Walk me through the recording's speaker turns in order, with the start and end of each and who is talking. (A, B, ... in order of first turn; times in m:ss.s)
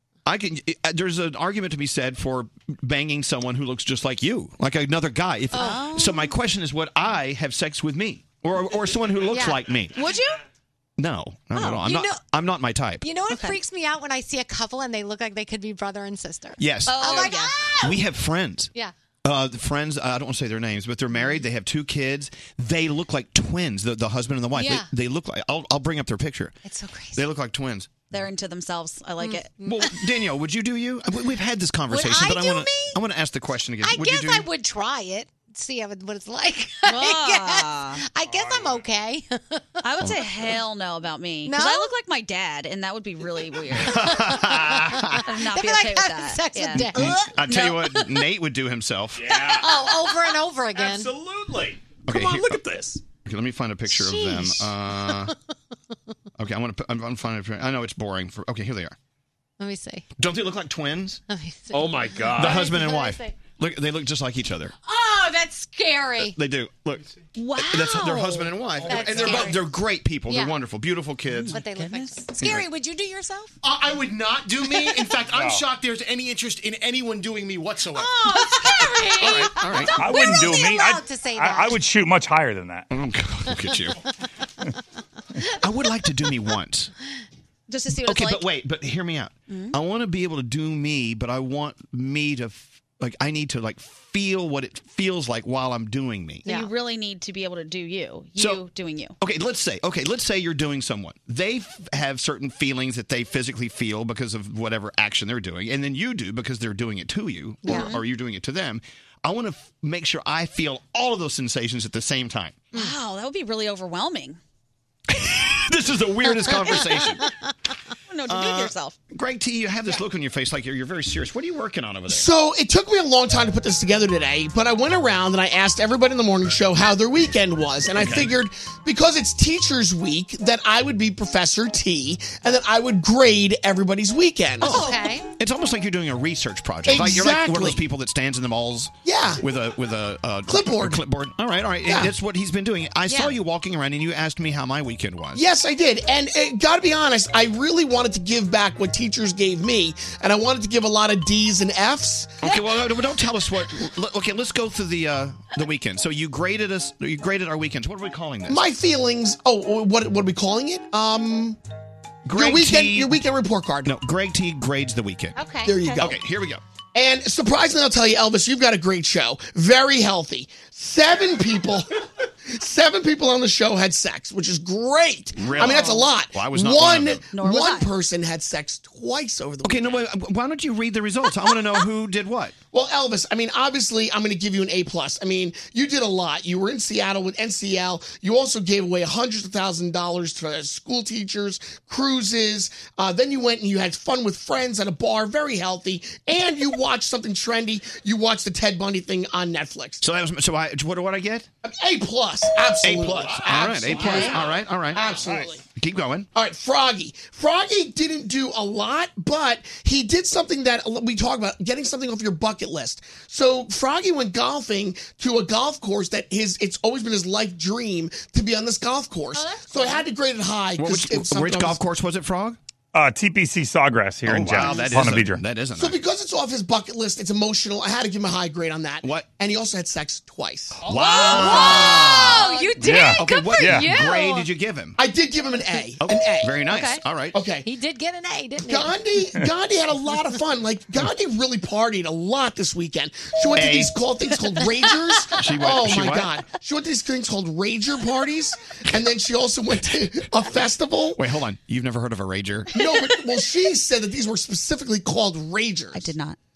0:00.2-0:10.0 A
0:05.5-0:05.8 B
0:05.5-0:06.3 C
0:09.3-0:09.6 B
0:09.9-0:10.4 C
0:11.0-0:13.0 A
0:11.5-0:12.0 C
0:11.8-0:12.2 B
0:13.0-0:18.0 B
0:13.3-0:13.6 C
0:16.6-0:18.7 A
0:16.9-0:17.7 C
0:19.2-0:26.6 A
0:24.5-0:24.9 B
0:26.6-0:27.2 B
0:27.2-0:28.0 A
0:28.1-0:29.5 C
0:29.2-0:30.0 B
0:29.6-0:34.5 A
0:31.9-0:33.0 B
0:33.8-0:39.7 B
0:36.8-0:38.0 C
0:39.8-0:44.2 C
0:41.4-0:41.9 B
0:43.8-0:45.2 A
0:44.0-0:47.2 B
0:45.2-0:48.1 C
0:46.8-0:49.4 A
0:49.4-0:51.2 B
0:50.8-0:51.1 D
0:51.7-0:52.9 D
0:52.1-0:52.7 A
0:53.2-0:55.3 A
0:53.8-0:55.3 B
0:56.4-0:59.0 A
0:59.6-1:00.0 B
1:00.2-1:01.2 A
1:01.3-1:03.3 B
1:02.3-1:04.7 A
1:04.8-1:06.4 B
1:06.2-1:07.0 A
1:07.4-1:08.5 C
1:07.6-1:11.6 A
1:08.8-1:09.6 B
1:08.8-1:09.4 D
1:10.3-1:10.5 B
1:11.3-1:12.3 C
1:11.5-1:13.5 B
1:13.6-1:18.3 D
1:15.3-1:15.6 E
1:18.0-1:21.8 B
1:19.2-1:20.0 A
1:19.9-1:22.9 E
1:22.9-1:24.0 A
1:25.5-1:26.9 A
1:27.7-1:28.5 C
1:28.0-1:36.4 A
1:29.5-1:29.8 C
1:36.4-1:36.7 B
1:36.4-1:39.2 C
1:38.4-1:38.6 A
1:39.2-1:52.7 A
1:47.6-1:47.9 B
1:47.6-1:48.0 C
1:52.7-1:54.4 C
1:55.1-1:57.3 A
1:58.1-1:59.0 C
1:58.3-2:02.3 A
2:02.1-2:14.9 F
2:07.9-2:08.3 A
2:14.6-2:25.4 A
2:14.6-2:15.2 B
2:16.8-2:17.8 F
2:19.0-2:19.4 F
2:20.5-2:21.0 F
2:21.8-2:22.1 F
2:23.1-2:23.3 B
2:25.3-2:32.5 F
2:32.4-2:38.6 A
2:38.5-2:41.6 F
2:42.2-2:43.2 A
2:42.3-2:43.9 F
2:43.8-2:45.4 A
2:45.4-2:45.7 B
2:45.6-2:46.1 F
2:45.8-2:46.1 C
2:46.0-2:46.6 A
2:46.9-2:51.9 F
2:52.4-3:00.0 F
2:55.4-2:57.3 A
2:57.3-2:57.9 C
2:59.6-3:02.6 A
3:02.7-3:20.0 F
3:20.0-3:21.5 A
3:21.6-3:25.6 F
3:22.8-3:25.1 A
3:23.9-3:24.4 C
3:25.7-3:26.3 A
3:26.3-3:41.8 F
3:39.3-3:40.0 B
3:40.8-3:42.6 A
3:42.9-3:45.4 E
3:44.2-3:46.0 A
3:45.8-3:50.8 F
3:49.0-3:49.3 A
3:50.8-3:55.0 A
3:50.9-3:54.5 B
3:51.3-3:52.7 C
3:51.4-3:51.8 F
3:52.8-3:53.9 E
3:55.0-3:56.6 F
3:56.0-3:57.4 A
3:56.7-3:57.0 B
3:57.3-3:57.7 F
3:57.6-3:58.9 B
3:58.6-4:11.3 F
4:03.5-4:03.9 A
4:05.4-4:06.3 A
4:11.2-4:12.8 A
4:12.7-4:16.1 F
4:15.9-4:16.4 C